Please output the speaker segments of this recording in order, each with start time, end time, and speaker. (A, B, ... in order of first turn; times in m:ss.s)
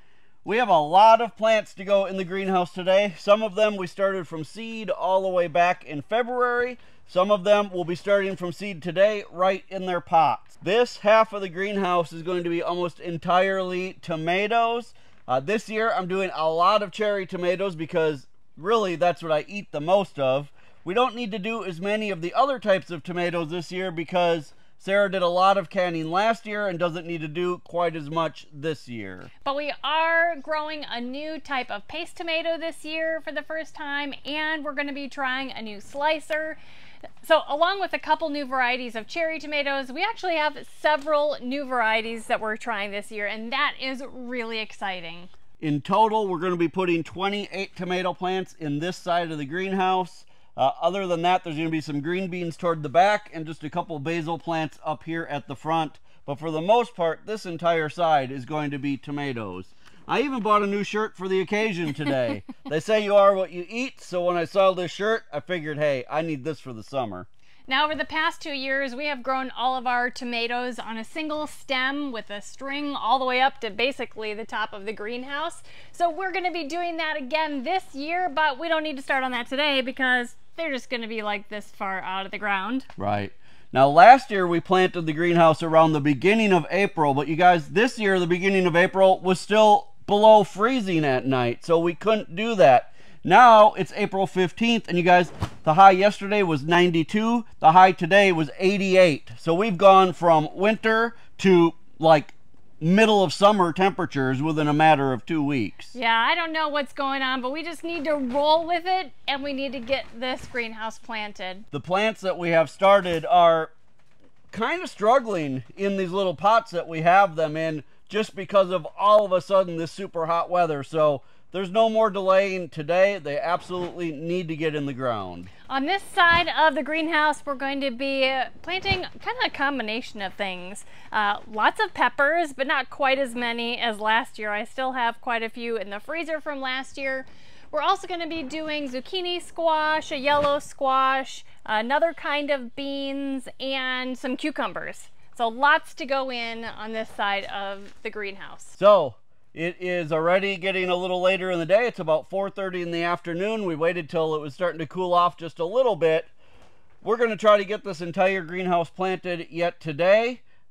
0:00.4-0:29.3 A
0:29.4-0:36.6 B
0:37.2-0:45.3 B
0:45.6-1:07.3 A
1:07.7-1:22.9 B
1:23.0-1:45.9 A
1:45.9-1:51.7 B
1:51.7-1:53.7 A
1:54.5-2:05.5 A
2:05.7-2:28.8 B
2:28.8-2:36.3 A
2:37.0-2:40.4 A